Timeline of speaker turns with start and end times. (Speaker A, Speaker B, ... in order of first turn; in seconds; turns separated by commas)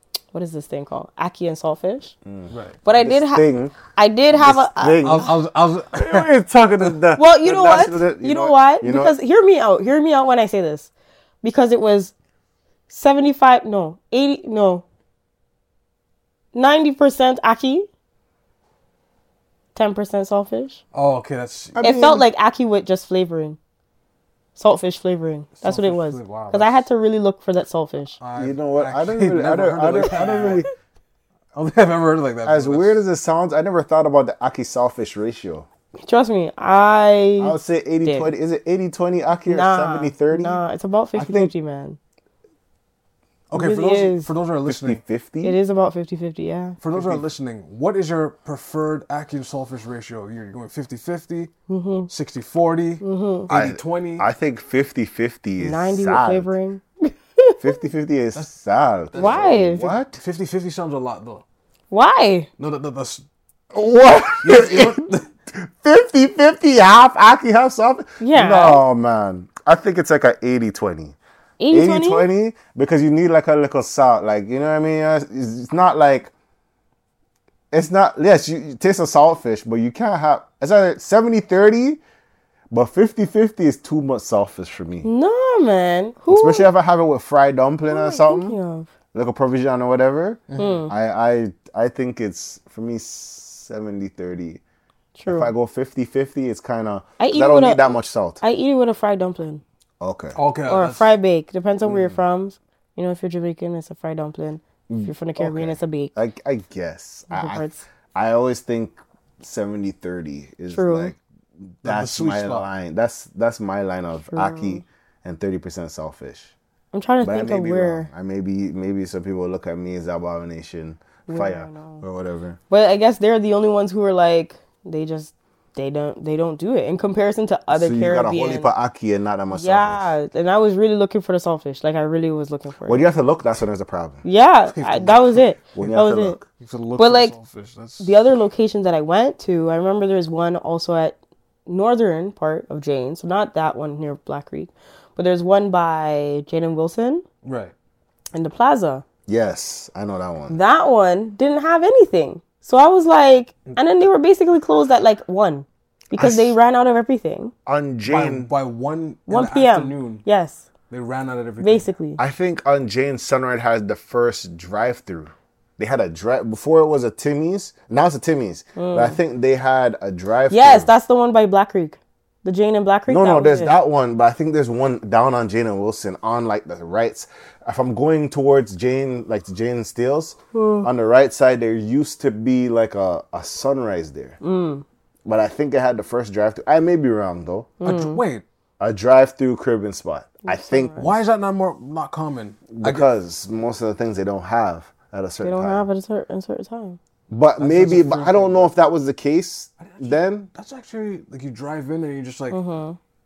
Speaker A: 0.3-2.1, Speaker B: 2.3-3.8, Speaker C: 2.5-2.8, Speaker A: 2.9-5.3, Speaker B: 4.3-5.4, Speaker C: 5.0-7.0, Speaker B: 5.9-9.2, Speaker A: 7.2-10.9, Speaker A: 11.4-12.1, Speaker A: 12.9-14.8, Speaker A: 16.5-17.9, Speaker A: 19.8-20.8, Speaker C: 20.9-21.8, Speaker B: 21.7-22.3, Speaker A: 21.8-23.6, Speaker A: 24.6-28.2, Speaker C: 25.6-26.8, Speaker C: 28.2-30.7, Speaker B: 28.4-30.7, Speaker A: 30.0-30.6, Speaker C: 31.5-33.0, Speaker B: 32.5-35.7, Speaker A: 36.0-38.3, Speaker B: 37.4-40.6, Speaker A: 39.5-42.0, Speaker B: 41.1-41.5, Speaker C: 43.5-45.0, Speaker A: 43.5-44.3, Speaker B: 44.7-45.6, Speaker A: 45.4-46.8, Speaker C: 46.8-51.5, Speaker B: 46.9-47.2, Speaker A: 51.7-52.1, Speaker C: 52.1-54.3, Speaker A: 53.0-53.5, Speaker B: 53.5-56.5, Speaker A: 55.6-57.6, Speaker B: 57.6-60.2, Speaker C: 59.1-61.4, Speaker A: 59.1-59.9, Speaker A: 61.9-62.5, Speaker C: 62.6-63.2, Speaker B: 63.7-71.2, Speaker C: 64.4-65.3, Speaker A: 68.2-68.8, Speaker A: 71.6-72.3, Speaker B: 71.7-76.3, Speaker B: 77.7-82.0, Speaker B: 82.7-85.1, Speaker A: 85.0-86.7, Speaker B: 86.3-88.6, Speaker A: 87.9-88.9, Speaker B: 89.1-94.6, Speaker C: 90.5-90.8, Speaker A: 90.6-90.9, Speaker A: 95.2-95.5, Speaker B: 95.3-98.4, Speaker A: 97.2-99.6, Speaker B: 100.0-100.4, Speaker C: 100.3-101.1, Speaker A: 100.7-106.1, Speaker B: 101.8-102.2, Speaker B: 104.9-116.5, Speaker A: 107.3-107.8, Speaker A: 110.7-111.1, Speaker C: 111.8-112.7, Speaker A: 114.3-114.8, Speaker A: 116.9-118.1, Speaker B: 117.2-122.6, Speaker A: 121.3-122.0, Speaker A: 122.7-128.7, Speaker B: 127.7-130.1, Speaker A: 129.5-133.1, Speaker B: 132.8-134.2, Speaker A: 134.2-136.4, Speaker C: 134.7-135.5, Speaker B: 135.8-136.4, Speaker C: 136.6-138.2, Speaker A: 137.0-137.3, Speaker A: 138.0-147.2, Speaker C: 147.4-147.7, Speaker A: 148.3-149.0, Speaker B: 149.3-150.6, Speaker A: 150.5-157.5, Speaker B: 156.2-156.6, Speaker B: 157.7-158.5, Speaker C: 158.1-160.2, Speaker A: 159.3-160.7, Speaker C: 160.9-161.9, Speaker A: 161.6-162.2, Speaker B: 162.2-170.9, Speaker A: 168.8-169.2, Speaker A: 170.5-173.7, Speaker B: 173.1-184.4, Speaker A: 180.5-180.9, Speaker A: 184.4-184.8, Speaker B: 185.3-187.7, Speaker A: 187.8-188.2, Speaker C: 187.8-188.4, Speaker B: 188.8-191.1, Speaker A: 190.4-191.1, Speaker C: 191.0-193.1, Speaker B: 192.7-195.9, Speaker A: 195.4-197.0, Speaker B: 197.3-200.5, Speaker C: 197.6-198.7, Speaker C: 199.8-202.6, Speaker A: 202.5-203.0